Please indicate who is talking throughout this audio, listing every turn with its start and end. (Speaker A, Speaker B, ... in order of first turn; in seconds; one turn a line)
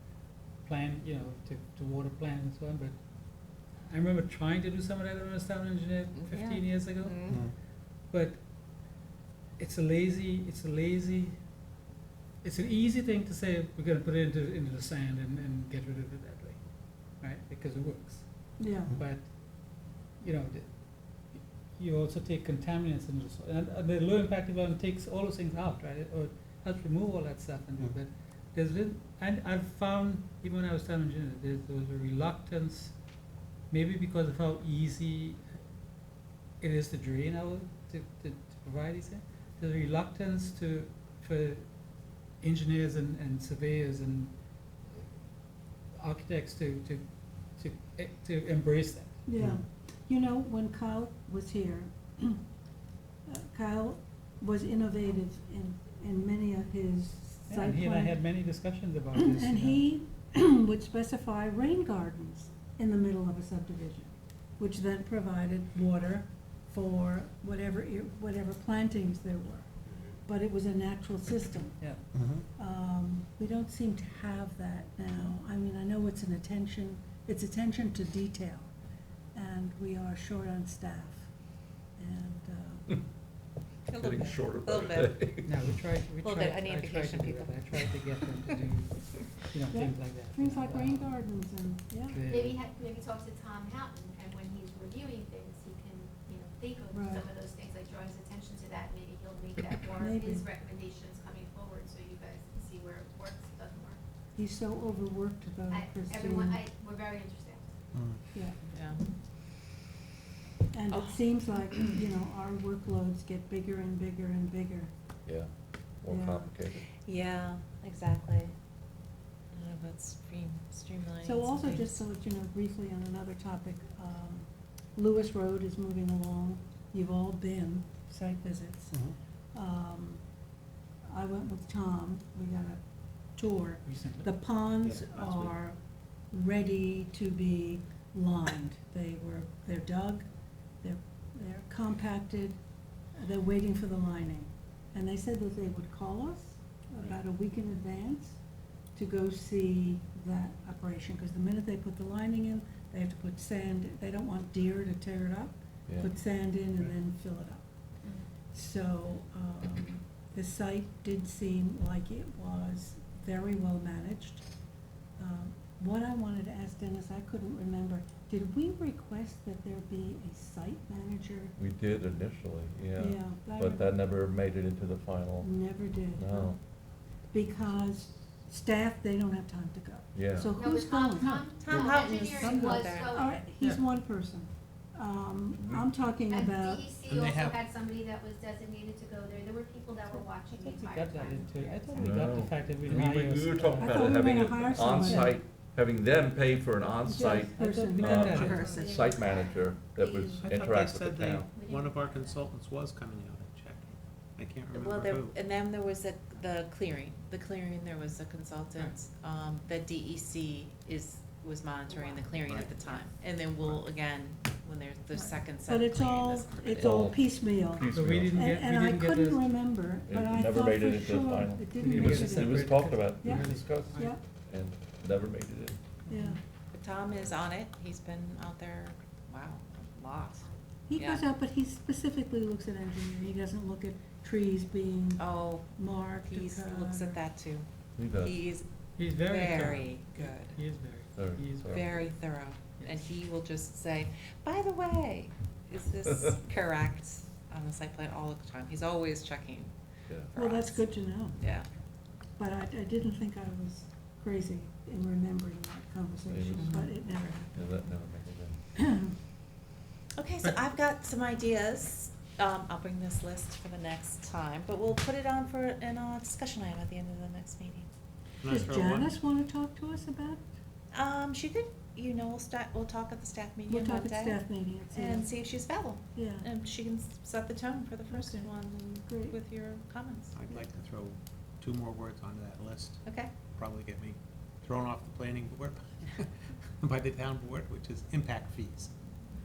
Speaker A: 0.6-3.0
Speaker A: 3.9-7.2
Speaker B: 6.1-7.4
Speaker C: 7.3-7.5
Speaker A: 8.1-8.4
Speaker A: 9.6-11.4
Speaker A: 12.4-16.6
Speaker A: 17.2-19.3
Speaker D: 18.6-18.9
Speaker A: 20.2-20.7
Speaker A: 21.8-32.9
Speaker A: 33.7-35.4
Speaker A: 36.6-41.6
Speaker A: 42.4-44.3
Speaker A: 46.0-47.0
Speaker A: 47.6-49.2
Speaker D: 49.2-52.4
Speaker D: 53.3-58.2
Speaker A: 57.5-59.8
Speaker D: 59.1-69.7
Speaker D: 70.2-71.8
Speaker C: 72.1-72.5
Speaker D: 72.5-78.7
Speaker D: 79.3-81.3
Speaker D: 82.0-83.0
Speaker B: 83.9-85.1
Speaker E: 84.0-85.6
Speaker A: 85.4-91.2
Speaker B: 86.2-87.9
Speaker D: 89.7-92.2
Speaker A: 92.1-92.6
Speaker F: 92.2-104.0
Speaker D: 96.9-97.3
Speaker D: 99.9-100.5
Speaker D: 104.3-106.6
Speaker F: 105.7-107.7
Speaker C: 107.9-108.2
Speaker D: 108.3-108.6
Speaker B: 108.7-109.0
Speaker D: 110.7-114.9
Speaker B: 110.9-112.0
Speaker E: 116.0-116.9
Speaker D: 116.1-116.5
Speaker B: 117.0-118.5
Speaker B: 119.5-122.0
Speaker D: 121.2-129.0
Speaker C: 128.9-129.2
Speaker D: 129.5-130.2
Speaker D: 131.1-132.8
Speaker D: 133.3-135.8
Speaker A: 133.8-134.3
Speaker C: 134.8-135.6
Speaker D: 136.3-140.2
Speaker D: 140.8-142.6
Speaker D: 143.2-148.4
Speaker D: 148.9-157.6
Speaker D: 158.5-164.4
Speaker D: 165.2-171.5
Speaker E: 171.6-175.5
Speaker D: 173.0-174.0
Speaker D: 175.4-176.5
Speaker E: 176.1-176.6
Speaker D: 177.3-181.9
Speaker E: 180.1-180.5
Speaker F: 180.5-183.3
Speaker B: 181.6-183.4
Speaker A: 181.7-182.8
Speaker D: 183.0-186.9
Speaker F: 186.2-192.0
Speaker C: 187.0-187.6
Speaker A: 190.1-195.3
Speaker E: 191.9-201.5
Speaker D: 193.8-195.4
Speaker D: 197.0-198.6
Speaker A: 197.2-198.8
Speaker C: 198.2-198.8
Speaker F: 198.6-199.9
Speaker C: 200.0-205.3
Speaker F: 201.5-202.4
Speaker B: 204.7-217.1
Speaker F: 211.9-212.3
Speaker C: 212.4-212.9
Speaker D: 215.1-224.2
Speaker E: 216.8-218.4
Speaker A: 217.9-219.4
Speaker E: 220.1-225.8
Speaker A: 221.8-224.1
Speaker D: 226.1-226.4
Speaker A: 226.1-226.4
Speaker B: 226.7-231.2
Speaker D: 230.9-237.2
Speaker B: 235.2-240.6
Speaker E: 237.9-238.4
Speaker A: 239.0-241.8
Speaker E: 241.1-241.9
Speaker B: 241.6-249.7
Speaker E: 250.1-250.3
Speaker B: 250.3-250.9
Speaker D: 250.3-251.4
Speaker B: 251.4-251.7
Speaker D: 252.4-257.7
Speaker E: 256.3-256.9
Speaker B: 256.6-256.8
Speaker E: 257.5-258.6
Speaker D: 258.8-259.1
Speaker B: 260.2-267.9
Speaker C: 268.4-269.1
Speaker D: 268.4-270.4
Speaker B: 270.9-274.4
Speaker D: 273.7-275.3
Speaker B: 274.9-280.3
Speaker D: 276.1-276.5
Speaker D: 278.1-278.5
Speaker D: 279.0-279.4
Speaker C: 280.3-288.9
Speaker B: 283.0-283.3